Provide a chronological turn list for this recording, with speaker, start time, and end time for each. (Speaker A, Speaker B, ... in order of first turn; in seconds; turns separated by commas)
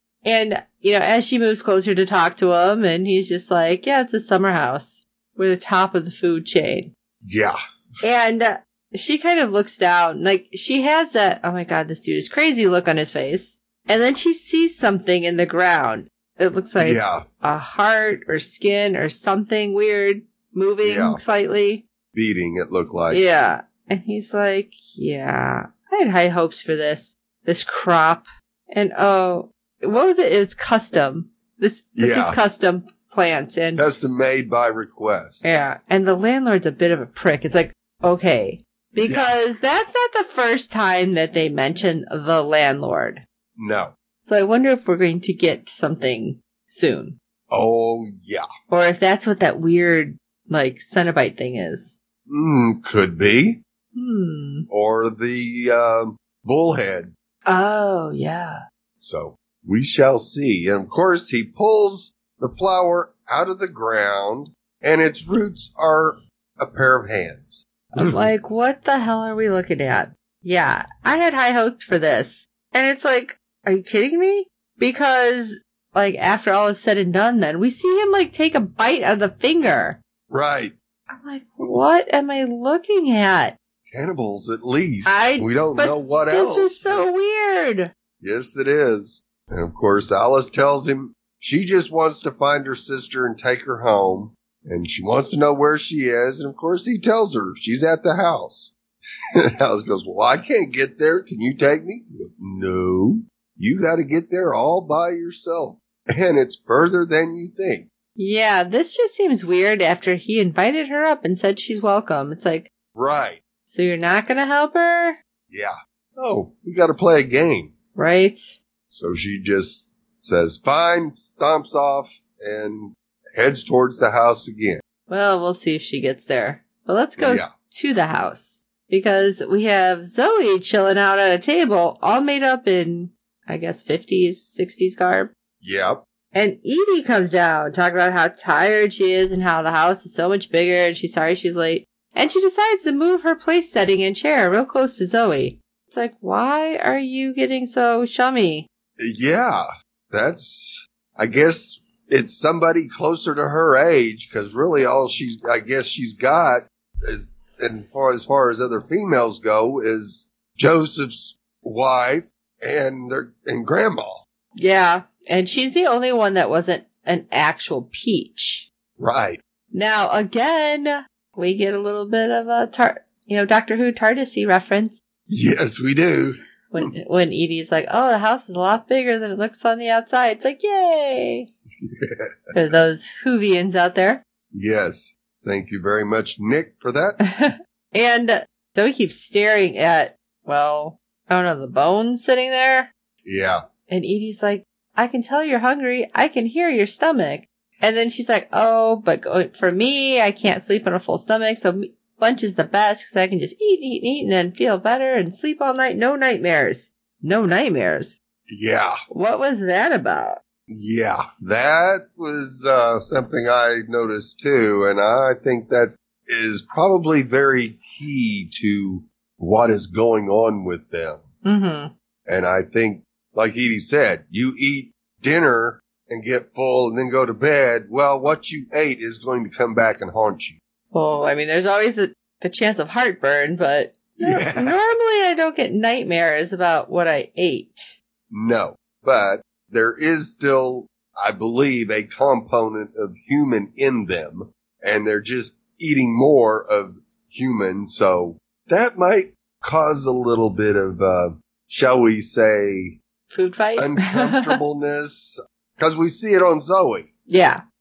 Speaker A: 0.2-6.9, Speaker B: 7.2-7.5, Speaker A: 8.0-21.8, Speaker B: 16.8-17.2, Speaker B: 20.8-21.2, Speaker B: 22.1-23.2, Speaker A: 23.1-33.8, Speaker B: 32.0-32.4, Speaker B: 33.8-35.4, Speaker A: 35.4-43.2, Speaker B: 39.0-39.3, Speaker B: 43.6-43.9, Speaker A: 44.2-47.1, Speaker B: 47.5-48.5, Speaker A: 48.7-51.9, Speaker B: 52.3-53.6, Speaker A: 53.9-54.7, Speaker B: 54.7-57.1, Speaker A: 57.5-58.6, Speaker B: 59.0-68.1, Speaker A: 67.9-80.0, Speaker B: 80.3-80.7, Speaker A: 81.1-83.5, Speaker B: 83.9-87.0, Speaker A: 85.0-87.9, Speaker B: 88.2-98.7, Speaker B: 99.6-107.8, Speaker A: 108.2-112.7, Speaker B: 112.9-113.4, Speaker A: 113.7-115.2, Speaker B: 115.5-117.7, Speaker A: 117.9-118.6, Speaker B: 118.9-124.8, Speaker A: 125.1-135.3, Speaker B: 127.2-127.5, Speaker B: 135.6-136.0, Speaker A: 136.3-148.7, Speaker B: 149.0-164.2, Speaker A: 164.6-168.7, Speaker B: 169.0-169.4, Speaker A: 169.7-175.0, Speaker B: 175.3-176.8, Speaker A: 176.7-181.5, Speaker B: 181.8-182.3, Speaker A: 182.5-184.2, Speaker B: 184.5-187.2, Speaker A: 187.2-192.9, Speaker B: 193.2-193.6, Speaker A: 193.9-208.2, Speaker B: 208.5-209.0, Speaker A: 209.1-210.4, Speaker B: 210.7-221.2, Speaker A: 221.4-221.9, Speaker B: 222.3-230.6, Speaker A: 230.9-237.9, Speaker B: 234.2-234.7, Speaker B: 238.3-253.0, Speaker A: 253.3-254.6, Speaker B: 253.8-257.1, Speaker A: 257.3-257.6